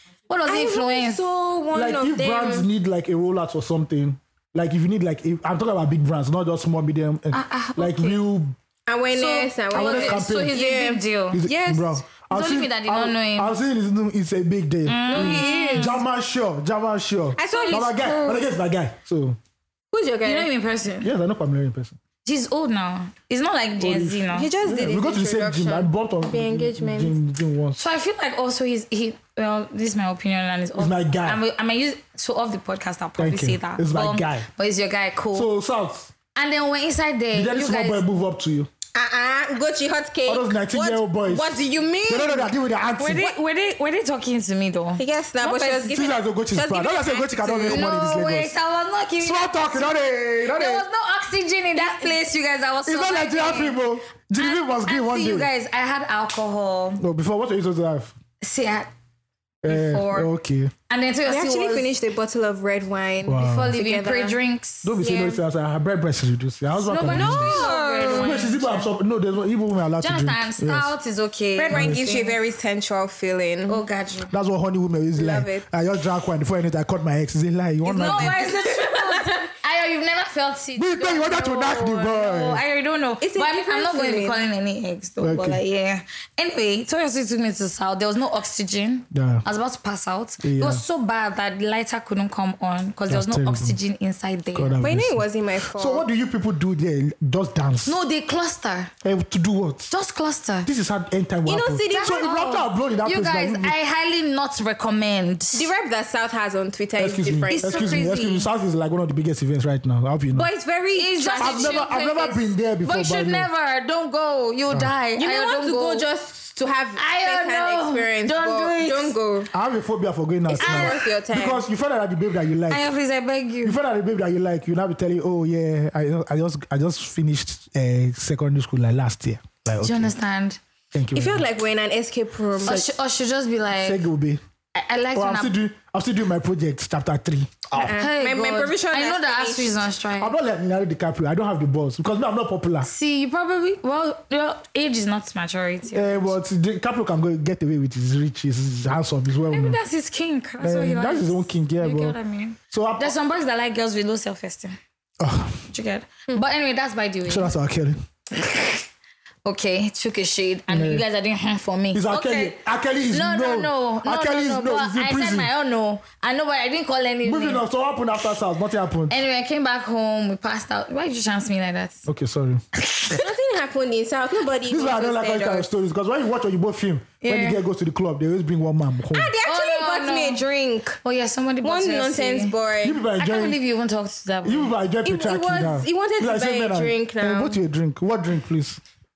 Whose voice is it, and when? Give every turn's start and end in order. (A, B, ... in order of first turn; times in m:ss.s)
0:00.3-0:01.2 A
0:00.5-0:02.7 B
0:01.7-0:08.5 C
0:07.3-0:08.2 A
0:08.9-0:12.0 B
0:09.1-0:11.4 A
0:09.7-0:10.5 C
0:11.3-0:19.4 C
0:12.3-0:13.5 A
0:14.9-0:16.0 A
0:15.1-0:16.0 B
0:17.4-0:18.4 B
0:17.5-0:18.1 A
0:19.9-0:20.5 B
0:20.2-0:21.1 A
0:21.0-0:22.0 C
0:22.2-0:24.5 A
0:23.8-0:27.8 C
0:24.3-0:27.2 B
0:27.8-0:35.5 A
0:30.8-0:31.4 C
0:33.2-0:34.5 C
0:35.3-0:36.1 C
0:36.4-0:38.0 A
0:37.3-0:38.7 C
0:38.9-0:42.5 B
0:40.3-0:43.3 C
0:43.0-0:45.9 A
0:45.0-0:47.9 B
0:45.8-0:48.5 C
0:47.7-0:53.8 A
0:49.2-0:50.9 C
0:51.8-0:52.2 B
0:52.9-0:55.5 C
0:54.4-0:57.0 A
0:57.0-0:58.1 C
0:58.4-0:58.9 A
0:59.6-1:00.7 C
0:59.7-1:00.3 A
1:00.9-1:01.9 A
1:01.3-1:04.4 B
1:03.2-1:03.8 C
1:03.4-1:05.0 A
1:04.8-1:10.9 C
1:05.0-1:05.4 B
1:06.8-1:08.9 A
1:07.0-1:08.5 B
1:10.0-1:12.4 A
1:11.6-1:13.8 B
1:11.7-1:12.0 C
1:13.7-1:14.3 A
1:14.3-1:18.5 C
1:15.2-1:15.7 B
1:17.9-1:19.5 B
1:17.9-1:34.8 A
1:20.8-1:22.6 C
1:23.2-1:24.4 B
1:25.2-1:25.6 C
1:29.1-1:29.4 C
1:30.4-1:30.8 C
1:33.1-1:33.8 C
1:34.5-1:38.0 C
1:34.8-1:36.0 B
1:37.9-1:38.9 A
1:39.0-1:39.9 C
1:39.9-1:40.7 A
1:40.6-1:43.8 C
1:41.5-1:42.4 B
1:41.9-1:45.7 A
1:45.5-1:48.0 B
1:47.0-1:50.5 C
1:47.5-1:48.5 A
1:50.3-1:51.8 B
1:51.0-1:56.0 A
1:51.4-1:53.5 C
1:55.2-1:59.5 B
1:57.0-1:59.1 A
1:59.5-2:02.9 C
2:00.5-2:01.6 B
2:00.6-2:01.0 A
2:02.7-2:03.8 A
2:03.6-2:10.1 C
2:09.8-2:10.6 A
2:10.9-2:11.5 C
2:11.1-2:12.8 B
2:12.6-2:14.0 A
2:13.8-2:14.4 C
2:14.7-2:15.5 A
2:15.1-2:17.9 C
2:17.8-2:20.3 A
2:17.8-2:19.8 B
2:20.2-2:22.9 C
2:22.8-2:26.4 A
2:25.9-2:29.8 C
2:29.5-2:34.8 A
2:30.6-2:32.2 C
2:32.7-2:33.1 C
2:35.2-2:35.7 C
2:35.7-2:37.5 A
2:37.2-2:38.0 C
2:38.4-2:38.8 A
2:39.4-2:42.6 A
2:40.7-2:41.0 C
2:41.9-2:45.5 C
2:43.1-2:47.6 A
2:47.2-2:49.2 C
2:49.1-2:52.1 A
2:52.0-2:52.6 C
2:52.8-2:53.2 A
2:53.1-2:55.7 B
2:54.7-2:59.3 C
2:57.2-2:57.6 A
2:59.1-3:01.0 B
2:59.4-3:00.4 A
3:01.0-3:02.5 A
3:01.6-3:03.0 B
3:02.8-3:03.6 C
3:03.2-3:04.7 A
3:04.4-3:08.8 C
3:05.0-3:07.6 B